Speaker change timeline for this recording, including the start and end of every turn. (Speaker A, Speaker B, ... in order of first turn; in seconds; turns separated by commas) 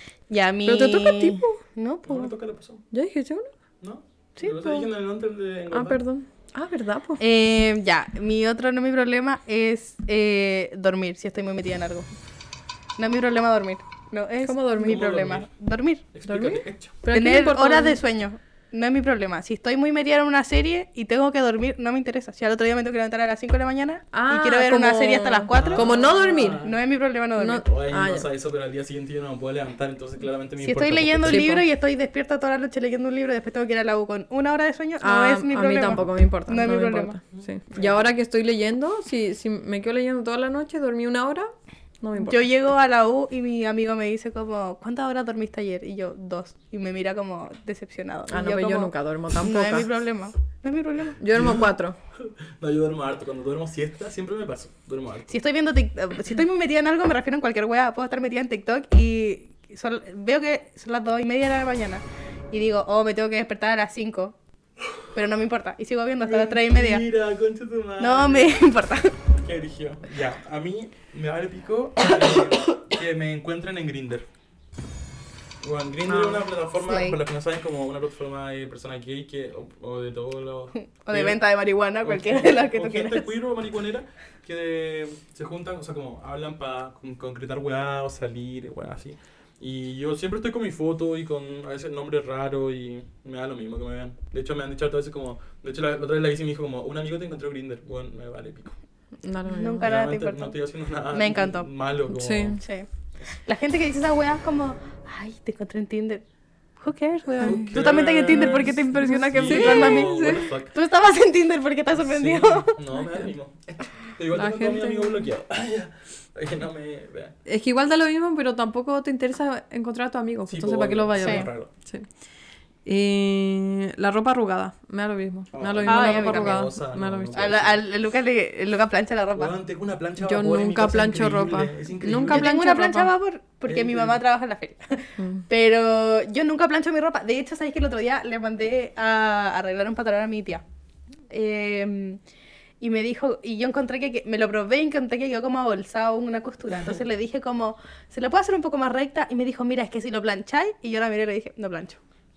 Speaker A: 0.3-2.3, Speaker B: 0.7-1.6, Speaker C: 2.1-2.8, Speaker B: 2.9-3.5, Speaker C: 3.8-6.0, Speaker A: 4.4-4.8, Speaker B: 5.7-7.2, Speaker A: 7.2-12.1, Speaker A: 13.0-16.1, Speaker B: 14.4-15.0, Speaker C: 14.8-15.5, Speaker C: 16.1-17.0, Speaker B: 16.3-18.0, Speaker A: 17.1-27.7, Speaker B: 24.1-26.6, Speaker C: 25.5-26.8, Speaker B: 27.4-28.3, Speaker C: 27.6-31.5, Speaker A: 30.6-37.2, Speaker B: 31.3-31.6, Speaker B: 35.0-42.4, Speaker C: 37.4-38.1, Speaker A: 42.2-51.2, Speaker B: 48.3-49.9, Speaker B: 51.2-52.0, Speaker C: 51.3-55.4, Speaker A: 55.3-64.3, Speaker A: 65.1-67.0, Speaker C: 66.2-68.7, Speaker A: 68.0-69.2, Speaker C: 69.3-74.3, Speaker C: 75.6-81.4, Speaker A: 76.1-77.2, Speaker A: 81.0-83.3, Speaker C: 82.0-98.8, Speaker B: 99.2-99.9, Speaker A: 99.5-100.6, Speaker C: 99.8-102.6, Speaker A: 101.1-101.7, Speaker B: 102.1-102.6, Speaker A: 102.6-102.9, Speaker A: 103.5-106.2, Speaker A: 106.8-112.8, Speaker C: 107.4-110.7, Speaker B: 107.4-107.8, Speaker B: 108.3-110.5, Speaker C: 112.0-117.3, Speaker B: 114.3-115.3, Speaker B: 117.5-122.1, Speaker C: 120.5-121.7, Speaker A: 121.2-121.5, Speaker B: 122.8-127.5, Speaker C: 125.5-127.8, Speaker A: 125.9-126.7, Speaker A: 127.3-129.5, Speaker C: 129.3-132.5, Speaker B: 130.2-133.1, Speaker A: 132.3-140.6, Speaker C: 133.7-134.2, Speaker B: 135.2-135.4, Speaker A: 141.3-142.2, Speaker A: 142.8-152.0